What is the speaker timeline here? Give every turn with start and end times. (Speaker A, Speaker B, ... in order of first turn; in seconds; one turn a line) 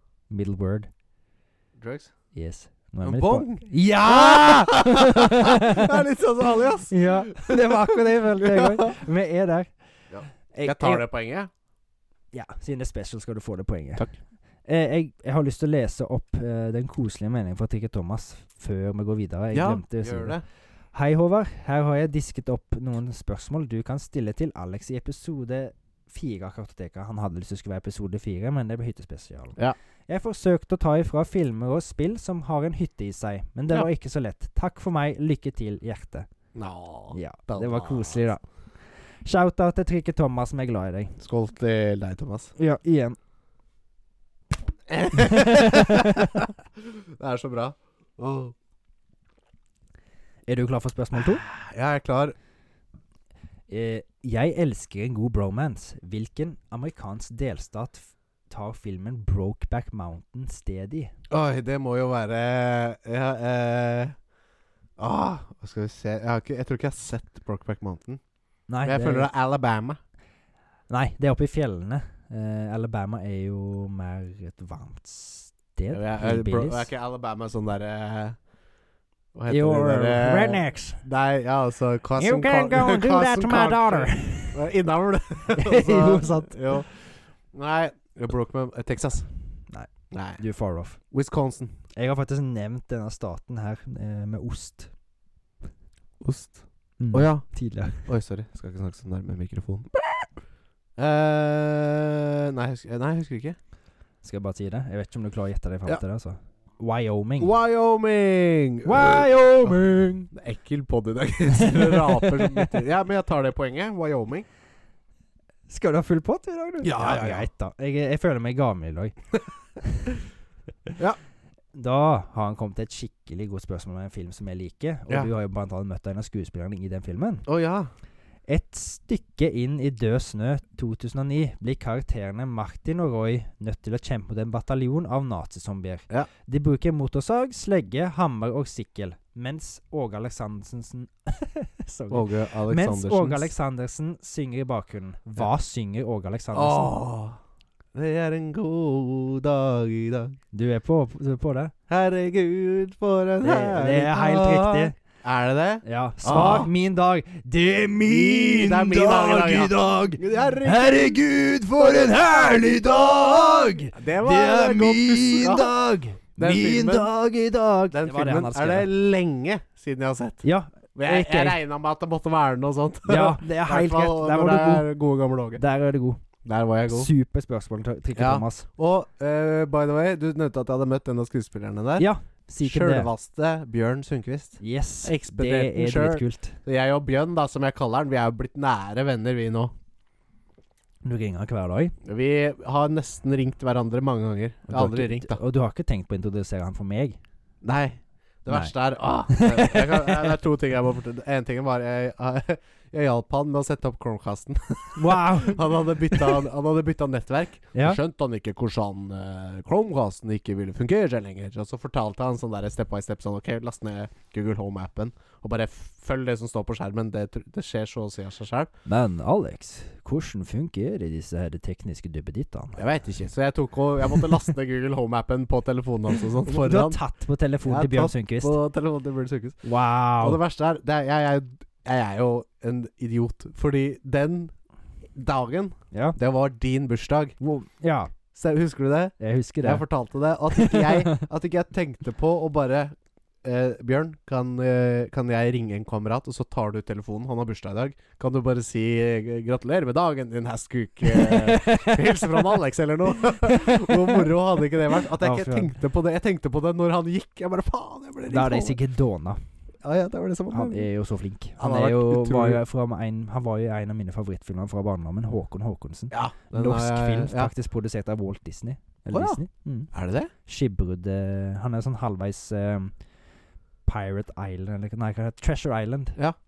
Speaker A: 0.3-0.9
Speaker B: 1.8-2.1
Speaker A: 2.3-6.0
Speaker B: 3.0-8.9
Speaker A: 6.9-9.7
Speaker B: 10.1-11.5
Speaker A: 10.5-11.0
Speaker A: 12.3-14.1
Speaker A: 14.6-20.4
Speaker B: 19.5-20.4
Speaker A: 20.9-29.6
Speaker A: 30.1-36.3
Speaker B: 36.5-38.3
Speaker A: 37.1-41.1
Speaker B: 41.2-42.5
Speaker A: 42.6-43.2
Speaker B: 44.9-48.5
Speaker A: 45.1-46.4
Speaker A: 50.5-51.4
Speaker B: 51.1-52.3
Speaker A: 53.7-61.1
Speaker B: 61.3-64.2
Speaker B: 65.0-68.2
Speaker A: 68.7-69.3
Speaker B: 68.8-70.0
Speaker A: 70.9-76.9
Speaker B: 75.9-78.4
Speaker B: 79.3-89.3
Speaker A: 79.5-81.0
Speaker A: 82.2-84.6
Speaker A: 85.5-86.8
Speaker A: 89.7-91.0
Speaker B: 90.1-90.4
Speaker B: 91.1-91.8
Speaker A: 91.9-94.9
Speaker B: 96.2-100.3
Speaker A: 97.0-98.1
Speaker B: 101.0-103.6
Speaker A: 104.2-107.5
Speaker B: 107.4-109.7
Speaker A: 108.8-110.3
Speaker B: 110.3-114.5
Speaker A: 111.5-112.8
Speaker A: 115.7-119.2
Speaker B: 116.8-117.5
Speaker A: 119.8-120.1
Speaker A: 121.7-127.5
Speaker B: 127.5-127.9
Speaker A: 128.5-146.9
Speaker B: 142.1-143.5
Speaker B: 146.5-147.4
Speaker B: 147.9-150.4
Speaker A: 150.5-151.7
Speaker B: 151.9-156.7
Speaker A: 153.4-154.9
Speaker A: 155.8-168.9
Speaker B: 158.1-161.2
Speaker B: 161.8-165.7
Speaker B: 166.4-167.1
Speaker B: 167.9-170.4
Speaker A: 170.4-171.6
Speaker B: 170.9-175.6
Speaker A: 173.1-174.9
Speaker A: 175.6-176.2
Speaker B: 176.4-177.1
Speaker A: 176.9-178.7
Speaker B: 178.2-182.1
Speaker A: 182.0-183.1
Speaker B: 182.6-189.7
Speaker A: 184.6-186.6
Speaker A: 191.0-191.9
Speaker B: 192.0-195.4
Speaker A: 194.7-197.2
Speaker B: 197.6-218.7
Speaker A: 199.3-200.3
Speaker A: 204.9-206.3
Speaker A: 207.7-208.0
Speaker A: 218.8-222.8
Speaker B: 222.8-227.0
Speaker A: 226.2-228.6
Speaker B: 227.6-229.7
Speaker A: 229.6-230.4
Speaker B: 230.2-234.5
Speaker B: 235.1-237.3
Speaker A: 235.9-236.2
Speaker A: 237.4-238.1
Speaker B: 238.3-258.8
Speaker A: 239.2-239.8
Speaker A: 240.5-241.2
Speaker A: 251.0-252.5
Speaker A: 253.1-255.7
Speaker A: 258.3-259.4
Speaker B: 259.8-260.9
Speaker A: 260.5-269.9
Speaker B: 261.6-262.6
Speaker B: 266.1-267.5
Speaker B: 269.1-270.3
Speaker A: 270.4-272.9
Speaker A: 273.8-276.2